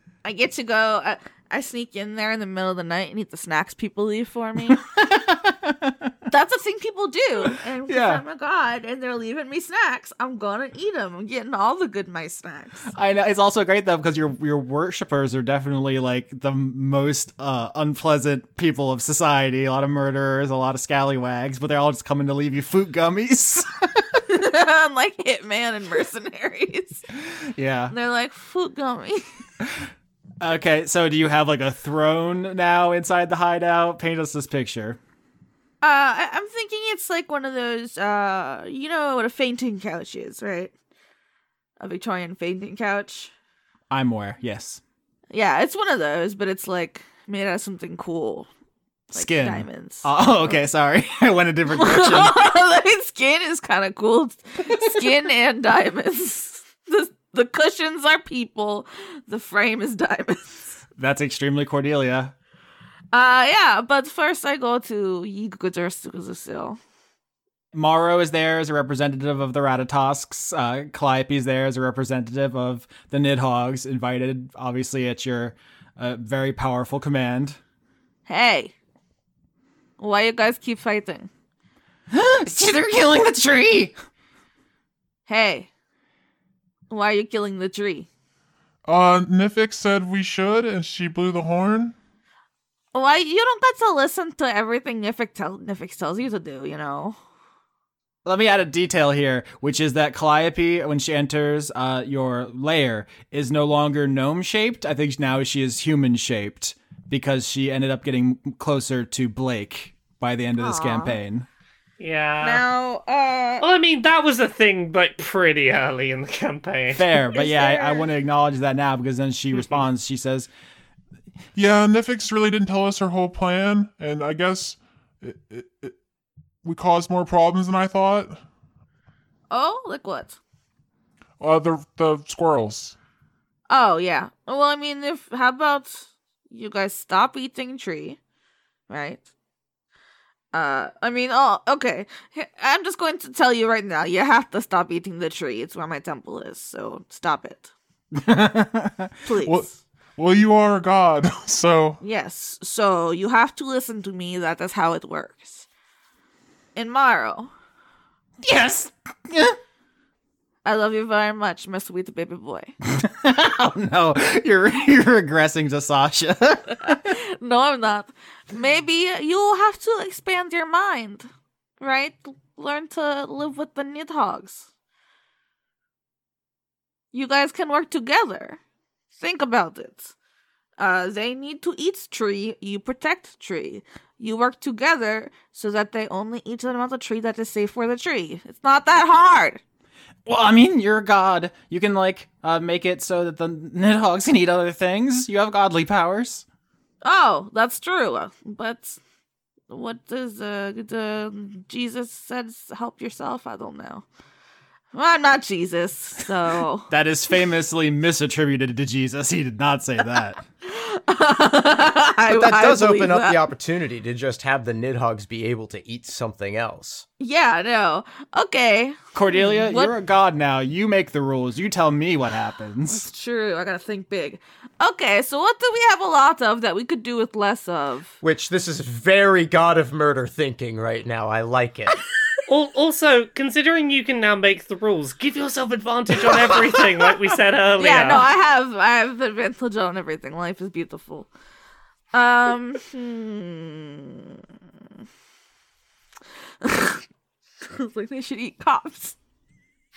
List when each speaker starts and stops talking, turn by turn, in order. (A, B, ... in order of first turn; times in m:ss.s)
0:00.2-0:04.8 A
0:04.9-0:06.1 B
0:06.3-0:12.9 A
0:07.4-0:08.2 B
0:12.9-0:24.2 B
0:24.3-0:27.0 A
0:27.6-0:27.9 B
0:27.9-0:29.2 A
0:30.4-0:35.0 B
0:35.8-0:40.7 A
0:41.8-0:43.3 A
0:43.9-0:44.8 B
0:45.3-0:48.5 A
0:49.1-0:52.4 B
0:49.1-0:50.0 A
0:51.7-1:00.8 A
1:01.0-1:02.3 B
1:03.1-1:06.8 A
1:07.7-1:17.6 B
1:18.3-1:18.7 A
1:20.0-1:21.3 A
1:22.1-1:23.9 B
1:25.3-1:25.7 A
1:26.9-1:28.1 A
1:28.8-1:31.9 C
1:32.9-1:37.2 A
1:38.2-1:51.4 B
1:50.6-1:51.2 A
1:52.0-1:52.6 D
1:52.4-1:53.6 A
1:53.6-1:57.0 D
1:56.9-2:00.5 B
1:57.3-1:58.0 A
2:01.5-2:05.9 C
2:06.6-2:08.4 C
2:09.5-2:10.4 A
2:11.4-2:13.0 C
2:13.7-2:18.2 A
2:18.9-2:19.2 A
2:20.5-2:27.7 A
2:28.1-2:29.1 B
2:29.2-2:29.7 A
2:29.4-2:32.0 C
2:32.0-2:35.7 A
2:36.7-2:37.5 A
2:38.4-2:39.6 B
2:40.6-2:42.7 A
2:42.9-2:47.1 B
2:47.1-2:51.2 A
2:51.8-2:54.6 A
2:57.1-2:58.6 A
2:59.2-3:00.1 A
3:00.8-3:09.6 A
3:10.2-3:16.4 B
3:17.0-3:19.0 A
3:19.7-3:24.0 A
3:24.9-3:26.9 A
3:26.9-3:30.4 B
3:30.6-3:33.4 A
3:32.2-3:37.0 E
3:37.2-3:39.9 A
3:39.1-3:43.1 B
3:42.9-3:48.1 A
3:48.2-3:52.0 E
3:52.5-3:58.3 D
3:57.8-4:01.3 A
4:02.1-4:04.4 A
4:06.6-4:07.0 A
4:07.6-4:09.2 A